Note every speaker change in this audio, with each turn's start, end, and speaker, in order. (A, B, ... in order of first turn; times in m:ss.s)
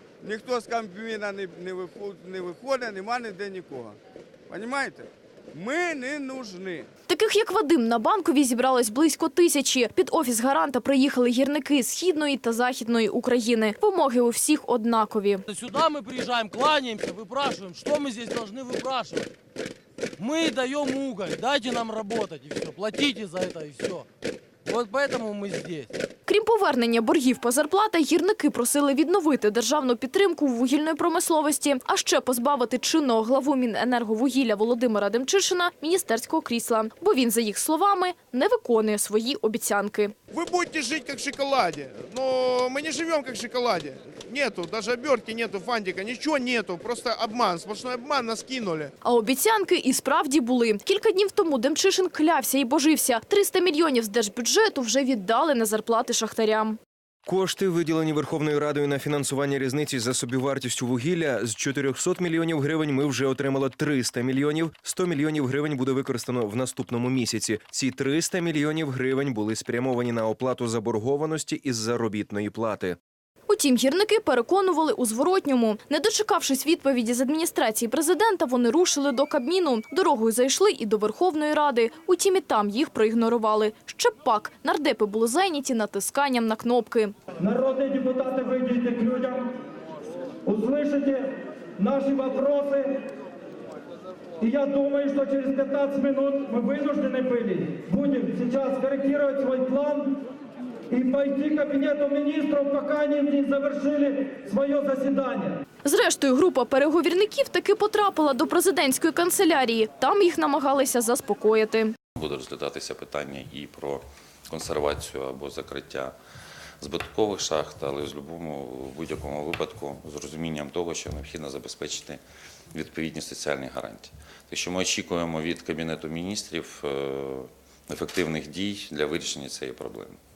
0:00.2-0:04.0 A
0:04.5-0:06.9 A
0:07.1-0:15.5 B
0:15.5-0:19.3 C
0:20.2-0:24.0 C
0:24.7-0:25.9 C
0:26.3-0:40.1 B
0:40.3-0:48.9 D
0:49.0-0:56.8 B
0:57.3-1:13.0 E
1:13.5-1:27.2 B
1:27.4-1:29.4 F
1:30.5-1:32.9 F
1:34.4-1:40.2 F
1:40.9-1:45.6 F
1:45.8-1:52.0 B
1:52.2-1:56.1 G
1:56.8-2:02.2 G
2:02.7-2:10.2 G